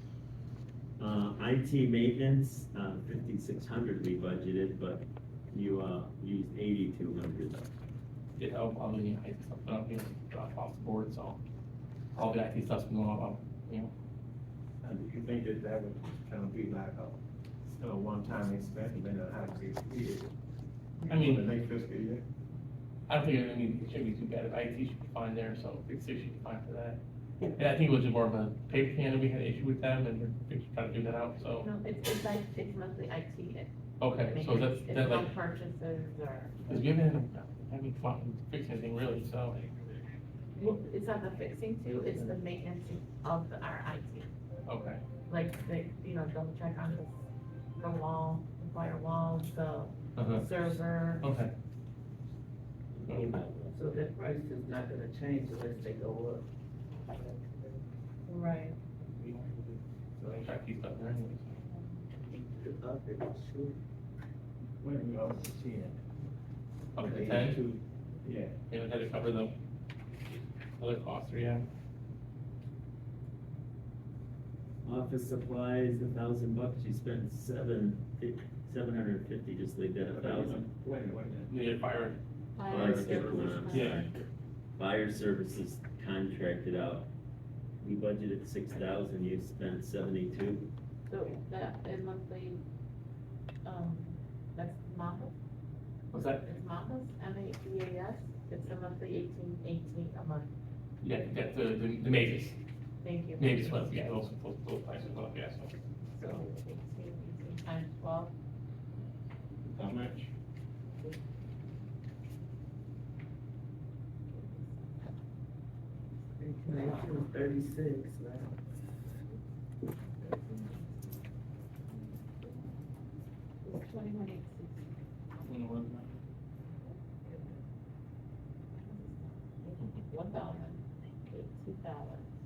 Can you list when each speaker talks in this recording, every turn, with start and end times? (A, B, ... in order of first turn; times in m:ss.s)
0:01.0-0:07.7 A
0:08.4-0:11.4 B
0:12.1-0:13.9 B
0:14.8-0:17.2 C
0:17.7-0:20.3 C
0:21.1-0:21.5 B
0:21.1-0:22.2 C
0:23.1-0:27.0 B
0:27.5-0:31.7 B
0:31.6-0:36.8 D
0:34.0-0:35.3 B
0:36.7-0:39.6 B
0:40.5-0:44.3 D
0:44.6-0:45.0 B
0:45.3-0:47.2 D
0:47.8-0:51.3 D
0:50.2-0:50.5 B
0:51.2-0:51.5 B
0:53.1-0:53.4 B
0:53.1-0:56.4 E
0:57.0-0:57.8 E
0:58.3-0:58.8 D
0:59.0-1:01.6 B
1:02.2-1:03.8 E
1:04.8-1:06.0 C
1:06.9-1:07.6 B
1:07.0-1:08.5 C
1:08.7-1:09.6 B
1:10.8-1:11.6 B
1:14.8-1:20.6 A
1:20.1-1:21.5 C
1:21.5-1:24.1 B
1:22.6-1:24.1 D
1:22.7-1:24.1 A
1:24.8-1:27.1 A
1:27.8-1:30.7 A
1:31.1-1:32.6 D
1:33.6-1:35.3 D
1:36.1-1:36.4 B
1:36.4-1:40.5 D
1:41.0-1:42.6 B
1:43.0-1:43.8 D
1:43.4-1:45.7 B
1:46.1-1:48.3 D
1:49.7-1:50.3 C
1:54.3-1:55.2 D
1:56.4-1:58.5 E
2:00.2-2:01.1 D
2:01.9-2:03.0 D
2:03.6-2:05.5 D
2:06.6-2:07.6 D
2:08.8-2:12.2 D